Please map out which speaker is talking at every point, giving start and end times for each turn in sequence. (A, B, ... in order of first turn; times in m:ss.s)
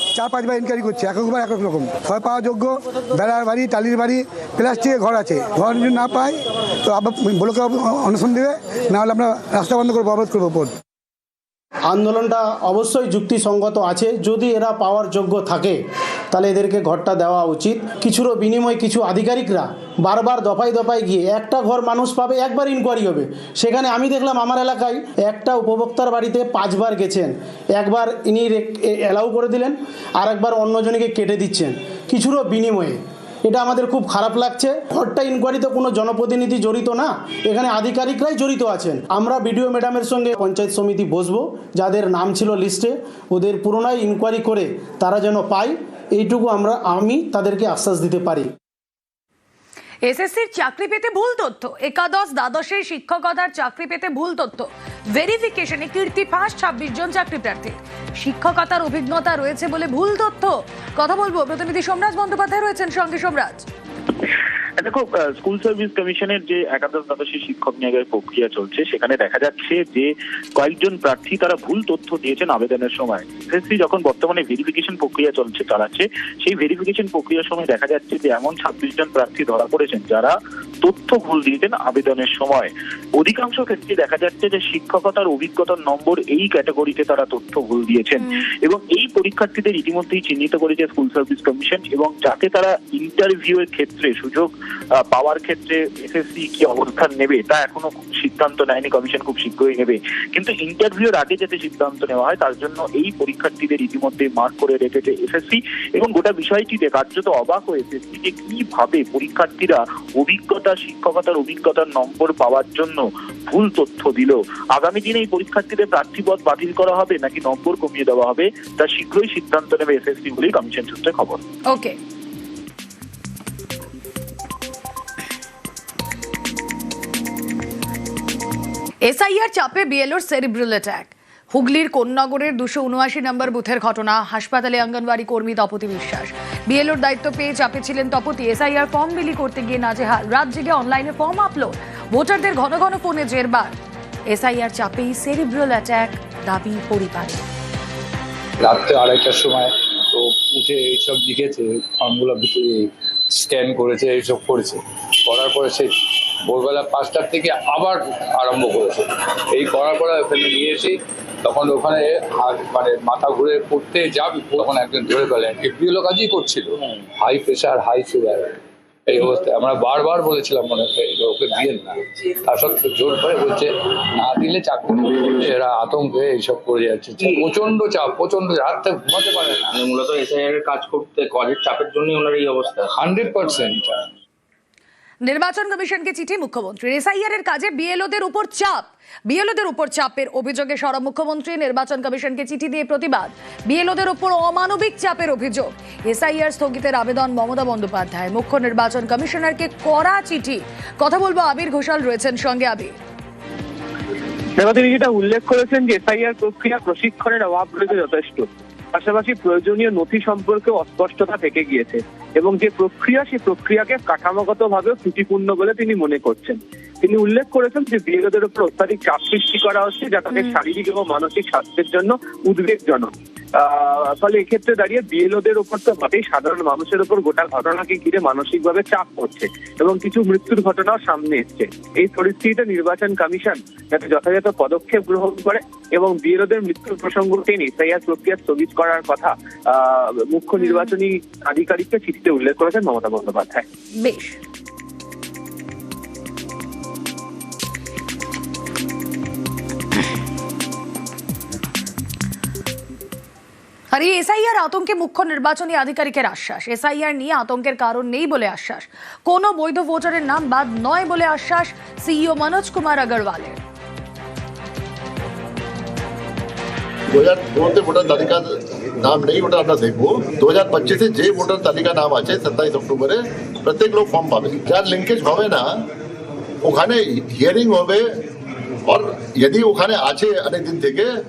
0:00.1-0:10.8 A
0:11.9-0:15.8 B
0:16.3-0:48.5 B
0:50.0-1:03.6 C
1:04.8-2:01.4 D
2:01.7-2:02.0 C
2:09.0-2:23.8 C
2:24.3-2:27.4 C
2:28.6-2:35.9 E
2:36.4-2:48.6 E
2:49.1-2:59.7 E
2:59.8-3:02.9 F
3:02.9-3:03.9 E
3:05.2-3:23.0 C
3:24.6-3:43.1 G
3:40.3-3:40.6 C
3:43.6-3:59.3 G
3:59.9-4:03.6 G
4:00.6-4:00.9 C
4:04.0-4:04.4 C
4:13.9-4:23.6 C
4:27.1-4:28.4 H
4:29.0-4:35.6 H
4:36.6-4:38.0 H
4:38.9-4:41.1 H